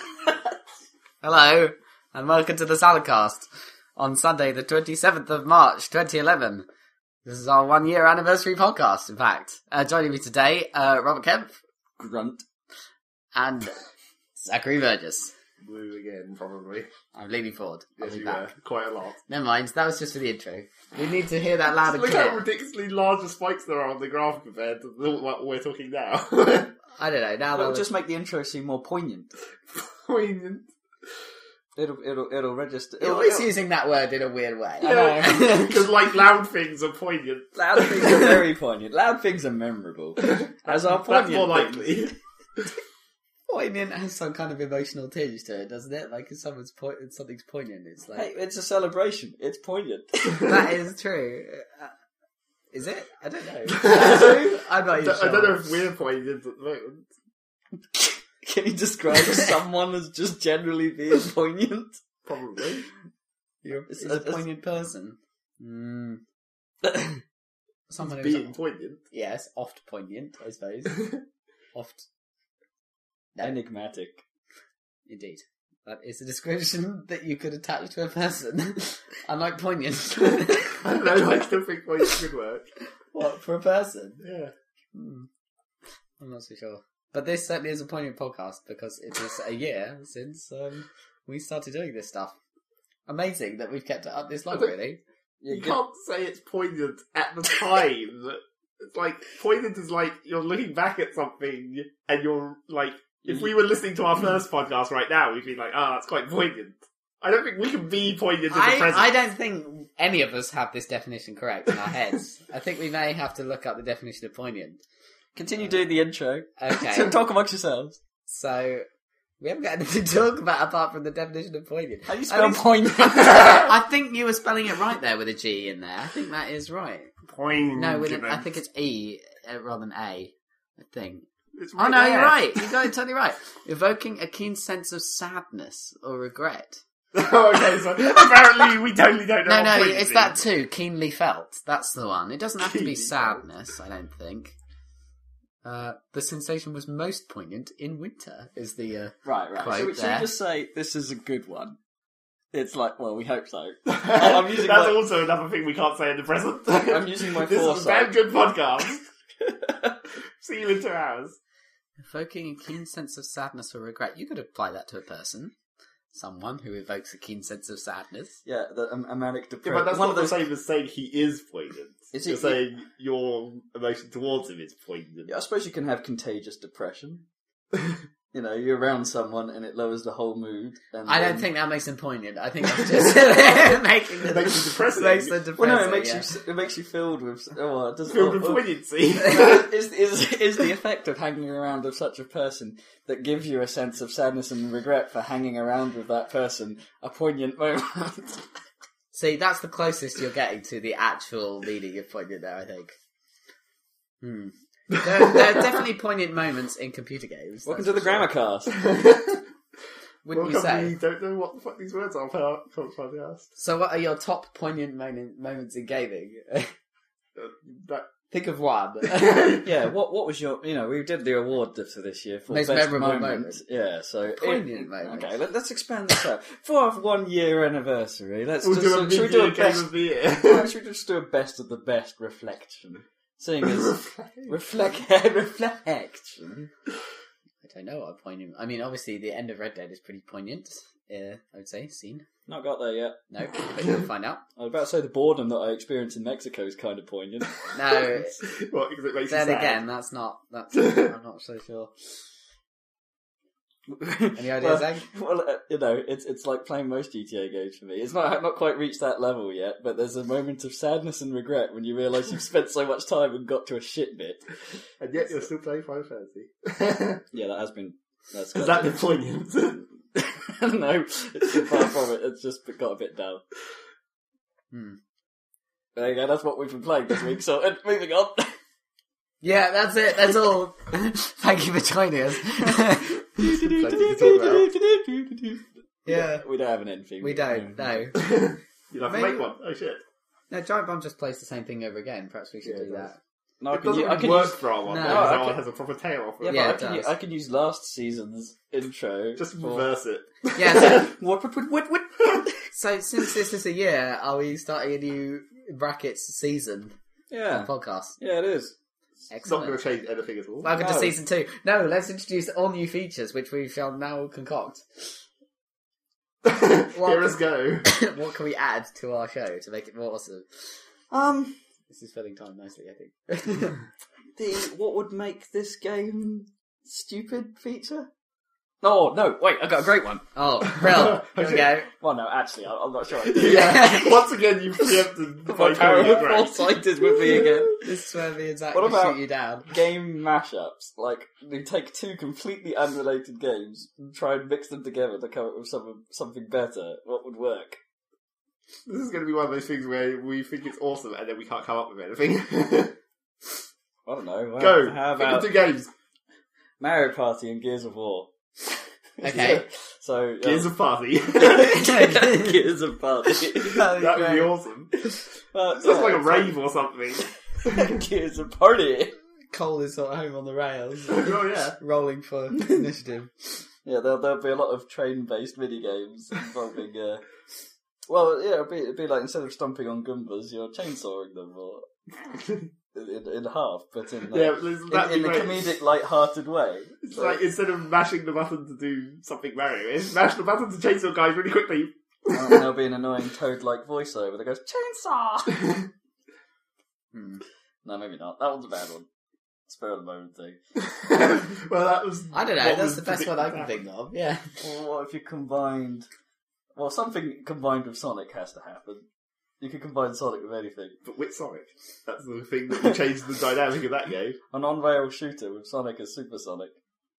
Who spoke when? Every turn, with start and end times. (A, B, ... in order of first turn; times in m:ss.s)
0:01.2-0:06.6 A
0:07.2-0:11.6 A
0:12.0-0:12.4 B
0:13.3-0:13.8 A
0:14.4-0:15.3 A
0:15.6-0:16.9 C
0:17.1-0:18.5 A
0:18.0-0:19.2 C
0:19.3-0:22.4 A
0:21.8-0:26.8 C
0:26.9-0:27.9 A
0:27.5-0:29.3 B
0:29.7-0:30.7 C
0:31.8-0:33.5 B
0:33.0-0:35.9 A
0:34.8-0:38.4 C
0:37.5-0:42.1 B
0:40.2-0:42.7 C
0:43.5-0:48.3 A
0:48.1-0:50.6 B
0:50.4-0:51.9 A
0:52.7-0:55.7 A
0:53.7-0:57.1 C
0:57.9-1:02.0 B
1:02.2-1:02.8 C
1:03.6-1:06.2 A
1:03.9-1:04.4 B
1:06.8-1:07.2 B
1:07.9-1:08.6 A
1:08.0-1:09.0 C
1:09.1-1:11.1 A
1:11.7-1:12.1 A
1:13.4-1:14.2 B
1:15.1-1:21.3 A
1:20.8-1:22.7 C
1:23.1-1:24.2 A
1:24.2-1:24.5 C
1:24.9-1:25.3 A
1:26.2-1:32.3 A
1:33.1-1:35.0 A
1:35.4-1:35.8 B
1:35.5-1:49.1 C
1:43.2-1:43.5 B
1:48.5-1:54.8 A
1:55.3-1:58.0 B
1:56.6-1:57.2 A
1:58.2-1:58.8 A
1:59.4-2:07.1 A
2:02.1-2:03.7 B
2:07.3-2:08.5 C
2:07.7-2:16.8 A
2:11.6-2:12.9 C
2:17.1-2:20.4 C
2:19.4-2:24.5 A
2:22.6-2:23.4 C
2:25.6-2:30.3 A
2:29.2-2:31.8 B
2:32.5-2:35.0 B
2:33.9-2:39.0 C
2:36.8-2:38.1 B
2:39.4-2:40.0 B
2:40.4-2:41.4 C
2:42.0-2:45.5 A
2:46.1-2:48.4 A
2:48.4-2:50.4 B
2:49.6-2:55.3 C
2:52.1-2:52.6 B
2:55.3-2:57.2 B
2:58.3-3:01.5 B
3:01.1-3:06.3 A
3:04.3-3:05.4 C
3:05.6-3:08.6 B
3:08.1-3:09.7 C
3:09.2-3:18.4 B
3:19.1-3:22.9 A
3:24.2-3:28.3 A
3:27.6-3:28.8 B
3:28.7-3:29.4 C
3:30.2-3:31.0 A
3:30.3-3:33.5 C
3:33.6-3:36.7 A
3:37.4-3:38.1 C
3:38.3-3:39.6 A
3:39.0-3:39.7 C
3:39.6-3:56.7 B
3:42.5-3:43.6 A
3:44.4-3:45.4 A
3:48.6-3:50.7 C
3:53.6-3:54.5 C
3:57.6-4:02.2 A
4:02.5-4:03.2 B
4:03.3-4:04.4 A
4:04.6-4:08.0 B
4:07.7-4:08.4 A
4:08.4-4:09.8 C
4:09.3-4:12.2 A
4:10.7-4:11.1 C
4:13.9-4:24.6 B
4:14.4-4:15.1 A
4:25.0-4:27.2 C
4:27.3-4:29.0 B
4:28.5-4:29.8 C
4:30.1-4:33.4 B
4:34.7-4:35.0 A
4:36.0-4:38.6 B
4:39.4-4:44.6 A
4:43.3-4:48.1 B
4:43.6-4:44.7 C
4:46.0-4:46.4 A
4:47.2-4:48.2 A
4:48.1-4:50.0 C
4:49.0-4:49.5 A
4:50.5-4:53.2 A
4:52.6-4:53.1 C
4:53.6-4:55.6 B
4:53.7-4:56.6 C
4:54.8-4:55.4 A
4:56.4-4:59.9 B
4:56.4-4:57.1 A
4:59.4-5:01.1 C
5:00.6-5:01.1 A
5:00.6-5:02.7 B
5:02.7-5:06.9 A
5:07.3-5:08.7 B
5:07.5-5:08.2 A
5:09.3-5:09.8 A
5:09.4-5:10.7 C
5:10.6-5:15.2 A
5:10.8-5:11.2 B
5:16.4-5:17.9 C
5:16.9-5:20.4 A
5:21.1-5:21.6 B
5:21.9-5:23.8 A
5:24.4-5:28.1 B
5:28.8-5:30.3 B
5:30.3-5:31.9 A
5:31.0-5:31.7 C
5:31.4-5:33.9 B
5:33.2-5:37.7 C
5:33.4-5:34.2 A
5:35.4-5:37.9 B
5:37.8-5:39.7 A
5:38.7-5:47.8 B
5:48.8-5:53.0 C
5:54.0-5:55.5 B
5:54.6-5:55.9 C
5:56.8-6:00.7 B
5:59.2-5:59.6 A
6:00.4-6:01.9 C
6:01.3-6:04.0 B
6:01.6-6:02.6 A
6:03.5-6:04.5 A
6:03.7-6:05.0 C
6:05.0-6:06.6 B
6:05.7-6:08.0 C
6:07.5-6:09.1 B
6:09.5-6:13.3 A
6:11.1-6:11.8 C
6:13.8-6:17.2 B
6:18.1-6:21.9 B
6:22.3-6:22.7 C
6:22.9-6:27.4 B
6:24.3-6:25.7 C
6:27.0-6:32.7 C
6:32.3-6:35.8 B
6:37.1-6:37.4 A
6:37.8-6:39.0 B
6:39.7-6:40.6 B
6:40.8-6:43.8 C
6:42.3-6:44.5 A
6:44.6-6:46.1 B
6:46.8-6:49.0 B
6:49.6-6:51.0 B
6:51.0-6:54.4 C
6:54.5-6:56.8 B